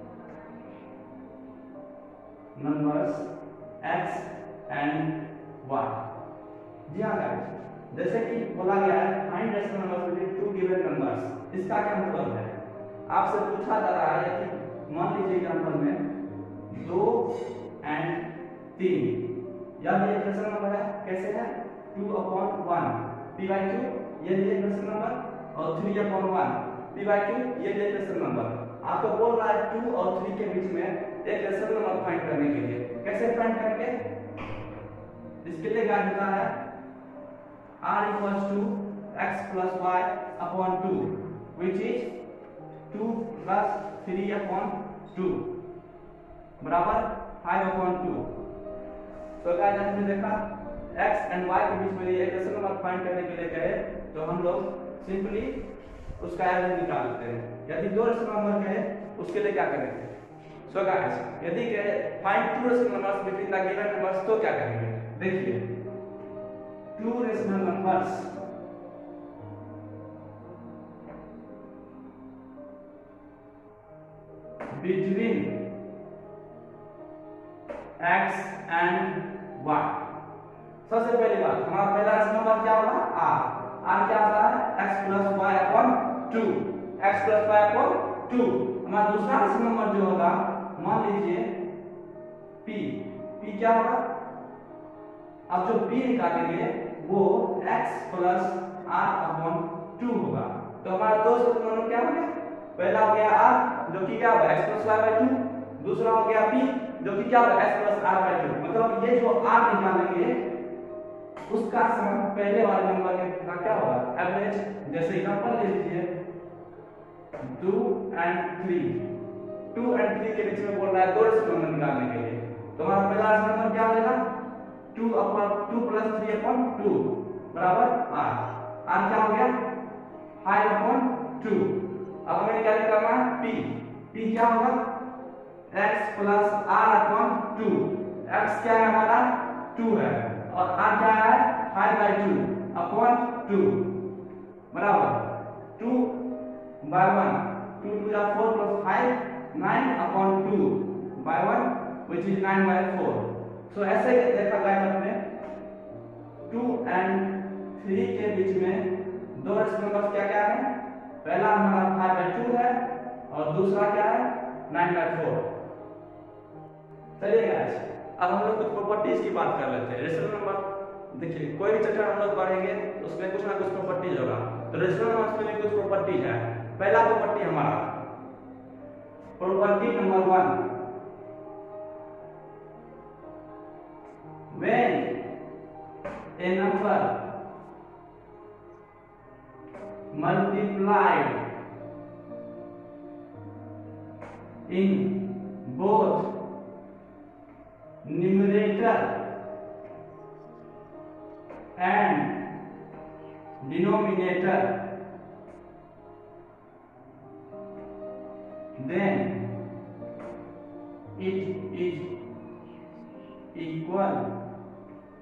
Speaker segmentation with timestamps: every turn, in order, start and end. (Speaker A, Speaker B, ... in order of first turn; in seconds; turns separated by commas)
Speaker A: 2.5-3.3, Speaker A: 3.8-6.1, Speaker A: 6.9-16.0, Speaker A: 16.7-19.2, Speaker A: 19.8-34.0, Speaker A: 35.4-36.6, Speaker A: 37.8-42.1, Speaker A: 42.9-45.5, Speaker A: 46.6-48.3, Speaker A: 49.4-55.6, Speaker A: 56.2-60.1, Speaker A: 60.7-65.7, Speaker A: 67.0-68.3, Speaker A: 74.7-75.6, Speaker A: 78.0-80.0, Speaker A: 80.8-91.5, Speaker A: 92.6-94.0, Speaker A: 95.5-110.4, Speaker A: 111.5-116.1, Speaker A: 117.4-119.0, Speaker A: 119.7-124.2, Speaker A: 124.9-129.6, Speaker A: 130.4-134.8, Speaker A: 135.7-143.9, Speaker A: 144.7-146.2, Speaker A: 146.8-155.2, Speaker A: 156.5-160.7, Speaker A: 161.2-165.5, Speaker A: 167.2-177.9, Speaker A: 179.4-180.6, Speaker A: 184.5-185.2, Speaker A: 186.4-187.1, Speaker A: 190.1-191.4, Speaker A: 194.7-196.3, Speaker A: 198.0-199.1, Speaker A: 201.8-202.4, Speaker A: 203.6-204.8, Speaker A: 208.8-209.4, Speaker A: 211.2-212.1, Speaker A: 213.5-214.3